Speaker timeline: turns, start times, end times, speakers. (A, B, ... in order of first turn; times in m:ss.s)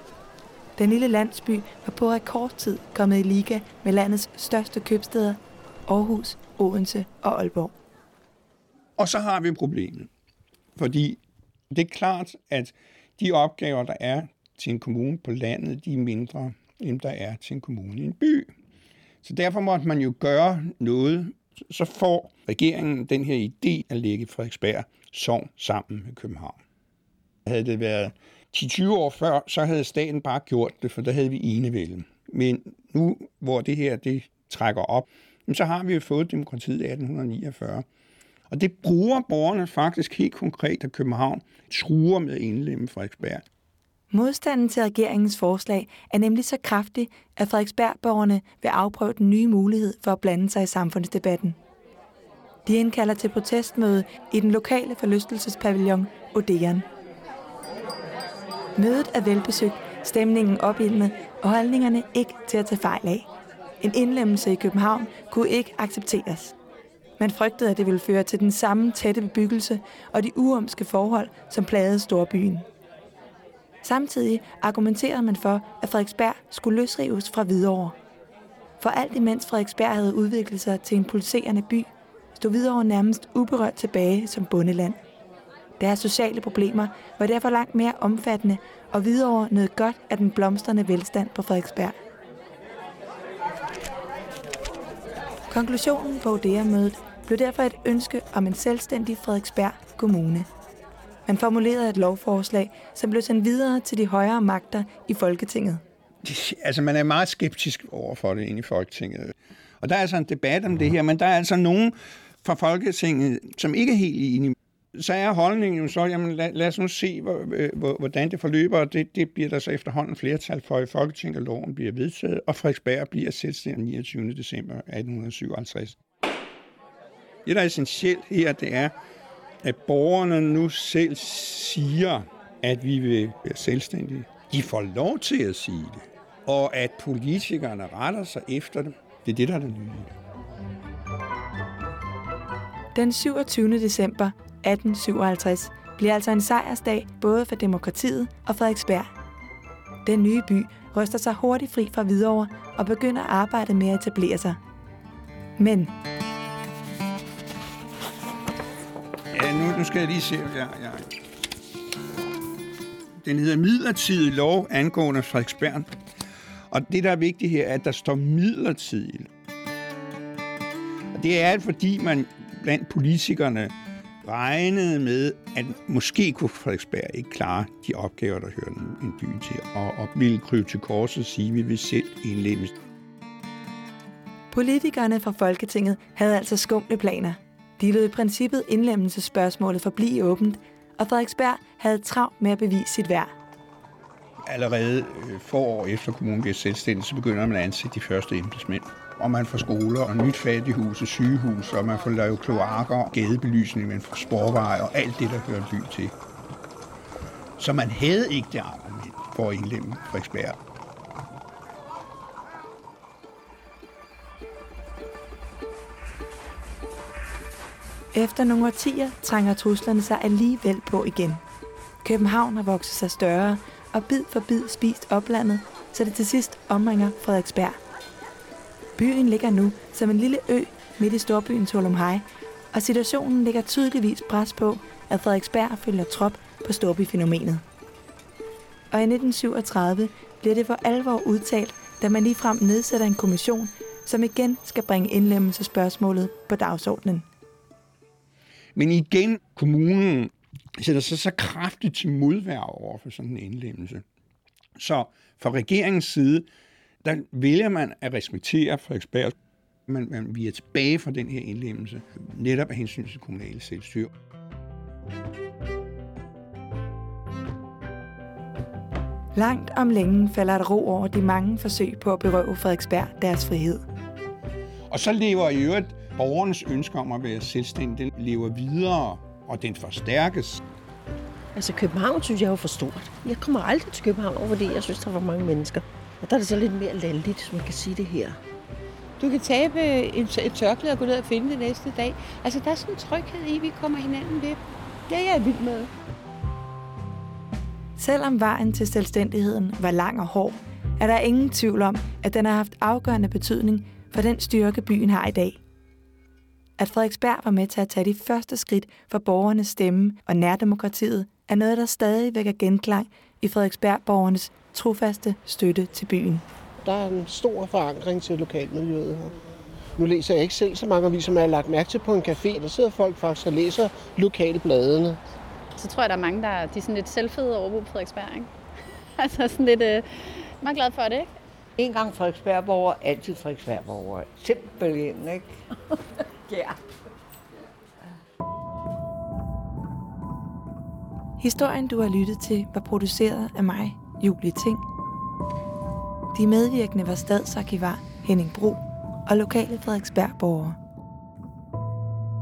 0:00.8-0:07.7 A
0:09.0-0:10.1 B
0:10.8-0:11.2 B
0:11.7-0:18.5 B
0:19.2-0:26.6 B
0:27.5-0:37.8 B
0:38.5-0:43.4 B
0:44.1-0:51.6 A
0:52.7-0:56.9 A
0:58.8-1:03.3 A
1:03.8-1:06.5 A
1:07.2-1:12.7 A
1:13.8-1:18.0 A
1:18.8-1:25.0 A
1:25.8-1:32.0 A
1:35.5-1:40.5 A
1:41.3-1:45.8 A
1:46.2-2:06.0 B
2:07.5-2:08.9 B
2:09.6-2:20.1 B
2:22.9-2:29.1 A
2:30.0-2:34.6 A
2:35.6-2:35.9 A
2:39.3-2:41.0 B
2:43.2-2:45.9 B
2:46.7-2:49.3 B
2:51.1-2:53.7 B
2:54.2-3:02.7 B
3:04.5-3:13.3 A
3:14.5-3:26.1 B
3:27.6-3:30.6 B
3:38.1-3:41.4 A
3:42.0-3:47.8 A
3:49.0-3:57.6 A
3:58.9-4:07.3 A
4:08.8-4:14.0 B
4:14.8-4:16.5 B
4:17.0-4:19.3 B
4:19.9-4:24.1 B
4:29.4-4:33.8 A
4:34.9-4:40.6 B
4:41.6-4:48.4 C
4:49.2-4:55.9 D
4:58.0-5:05.6 A
5:06.8-5:16.4 A
5:16.8-5:19.3 E
5:20.0-5:25.2 E
5:25.8-5:28.5 F
5:29.2-5:31.3 F
5:31.8-5:35.5 G
5:41.4-5:44.8 A
5:46.3-5:50.8 A